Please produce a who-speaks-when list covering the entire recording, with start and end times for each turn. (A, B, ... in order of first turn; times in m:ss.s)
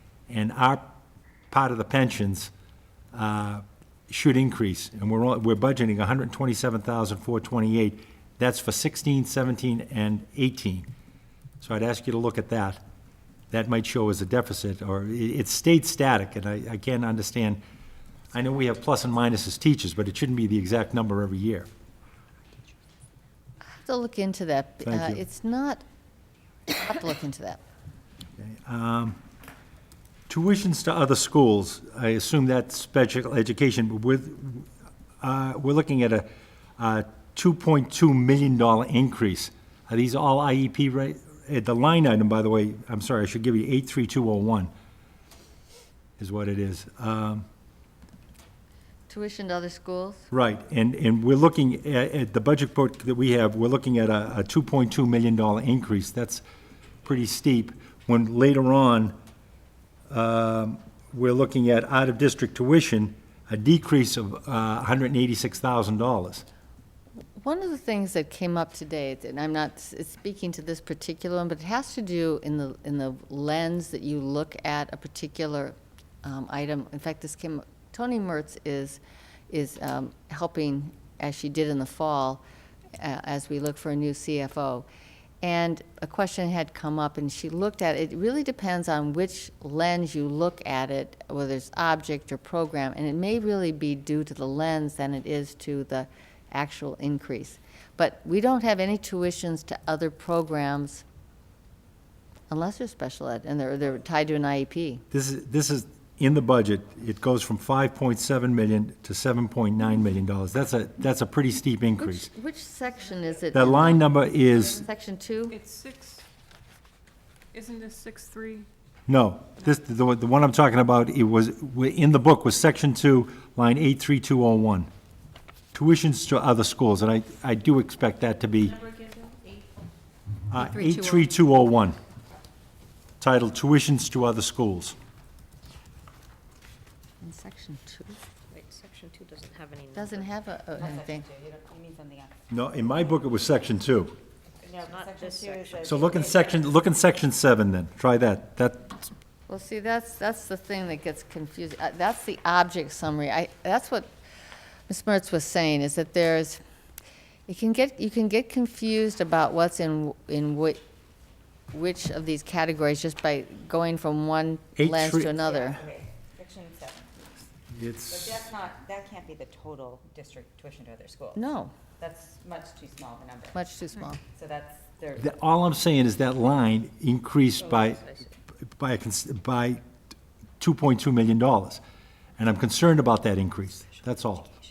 0:00.3-0:00.9 A
0:01.5-0:02.5 A
0:03.1-0:10.9 A
0:11.6-0:12.8 A
0:13.5-0:17.6 A
0:18.3-0:21.7 A
0:23.7-0:25.8 B
0:24.8-0:25.2 A
0:26.7-0:27.6 B
0:28.4-0:29.2 A
0:30.3-0:34.7 A
0:35.2-0:44.7 A
0:46.2-0:47.4 A
0:49.1-0:50.3 B
0:50.3-0:56.4 A
0:57.0-0:59.1 A
1:00.1-1:06.4 A
1:07.4-1:22.4 B
1:23.0-1:24.8 B
1:25.4-1:41.0 B
1:42.5-1:45.0 B
1:45.1-1:52.3 A
1:52.0-1:55.6 B
1:53.5-1:54.8 A
1:55.5-1:56.2 C
1:57.5-1:58.7 C
1:59.1-2:04.9 A
2:05.7-2:08.8 A
2:08.9-2:09.6 D
2:10.5-2:12.0 A
2:10.5-2:11.3 B
2:13.2-2:15.0 A
2:17.2-2:18.2 B
2:18.5-2:20.3 E
2:19.9-2:21.2 B
2:20.8-2:22.4 D
2:22.5-2:24.1 A
2:24.6-2:26.5 E
2:24.6-2:26.6 D
2:25.8-2:29.1 A
2:29.5-2:34.1 B
2:34.9-2:36.6 B
2:37.5-2:40.8 B
2:41.7-2:45.8 B
2:44.8-2:45.3 A
2:45.4-2:47.2 D
2:47.7-2:48.5 A
2:48.1-2:51.4 D
2:51.3-2:51.7 B
2:52.0-2:53.6 D
2:53.5-2:54.2 B
2:54.3-2:55.2 D
2:55.2-2:58.0 A
2:57.6-2:58.3 E
2:58.7-2:59.8 A
3:00.6-3:01.8 A
3:02.4-3:04.5 A